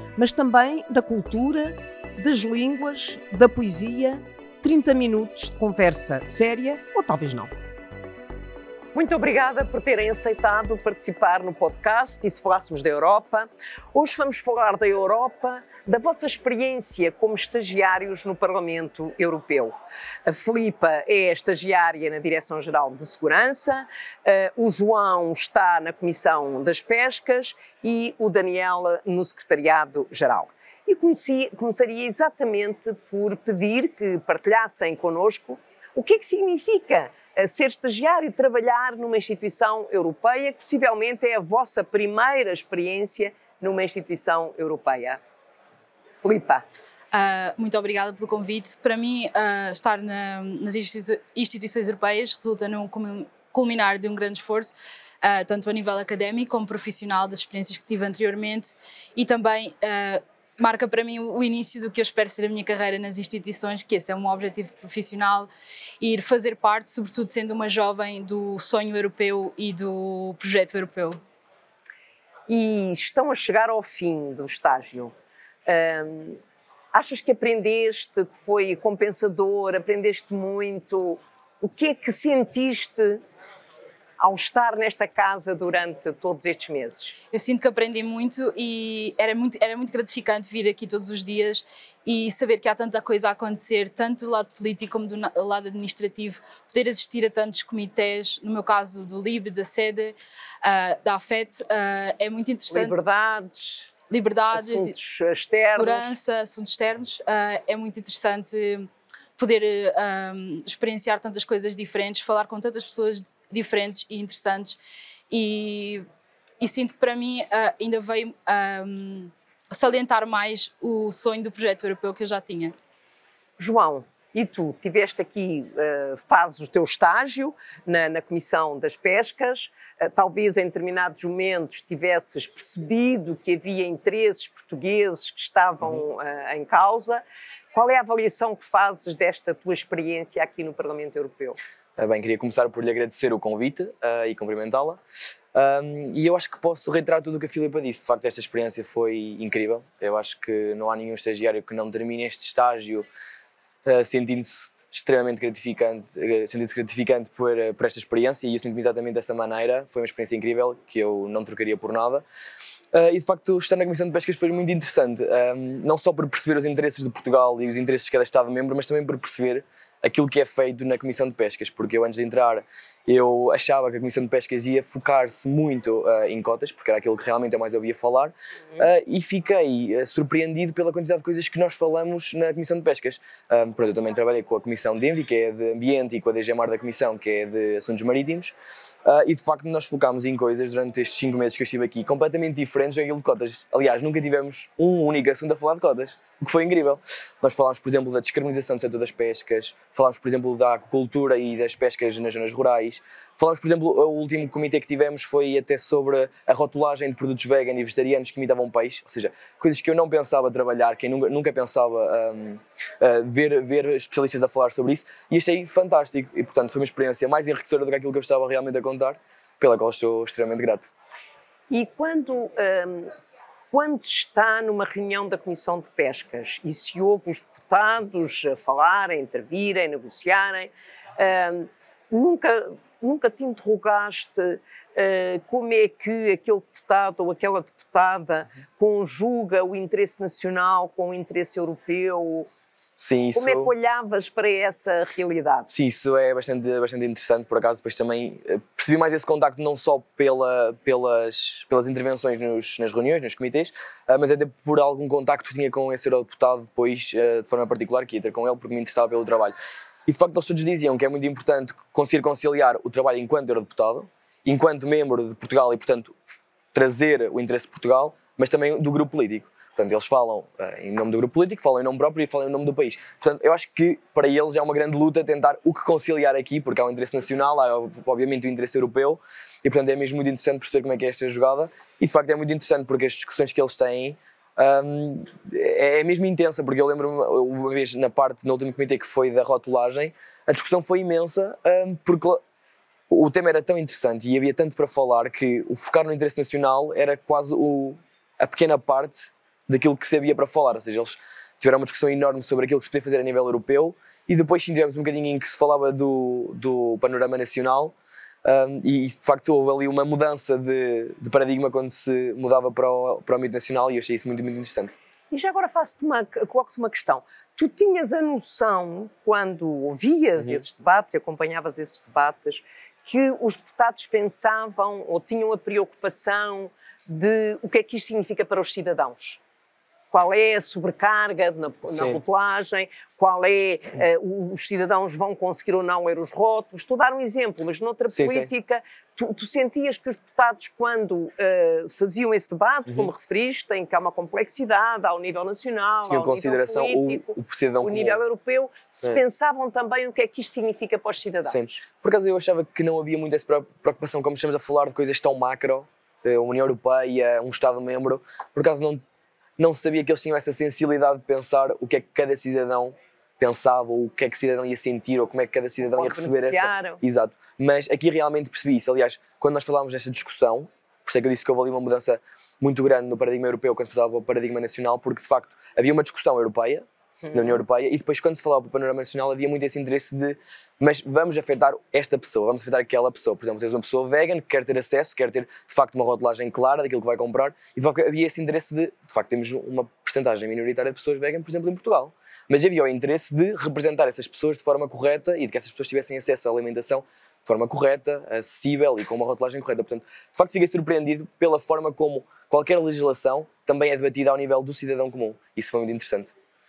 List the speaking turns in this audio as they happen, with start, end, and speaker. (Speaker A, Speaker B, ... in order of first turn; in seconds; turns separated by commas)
Speaker A: 0.2-7.5, Speaker A: 8.9-19.7, Speaker A: 20.3-45.2, Speaker A: 46.2-46.6, Speaker B: 47.1-65.5, Speaker B: 66.0-71.2, Speaker A: 72.5-75.1, Speaker A: 75.7-76.4, Speaker A: 76.9-83.2, Speaker A: 84.2-87.1, Speaker B: 87.3-103.0, Speaker A: 102.7-103.9, Speaker B: 104.1-104.9, Speaker A: 104.5-106.2, Speaker B: 105.6-114.8, Speaker B: 115.3-116.0, Speaker B: 116.6-122.7, Speaker A: 123.6-141.6, Speaker C: 142.0-145.0, Speaker C: 145.5-153.1, Speaker C: 153.8-162.2, Speaker C: 162.9-220.9, Speaker A: 221.7-223.1, Speaker A: 223.7-242.5, Speaker C: 243.0-243.7, Speaker A: 243.3-245.7, Speaker C: 245.7-259.6, Speaker C: 260.1-292.4, Speaker C: 293.1-314.9, Speaker A: 315.3-329.4, Speaker A: 330.1-351.6, Speaker C: 331.9-332.2, Speaker C: 338.1-338.5, Speaker C: 346.1-348.2, Speaker C: 351.5-359.0, Speaker C: 359.6-406.3, Speaker A: 365.9-367.0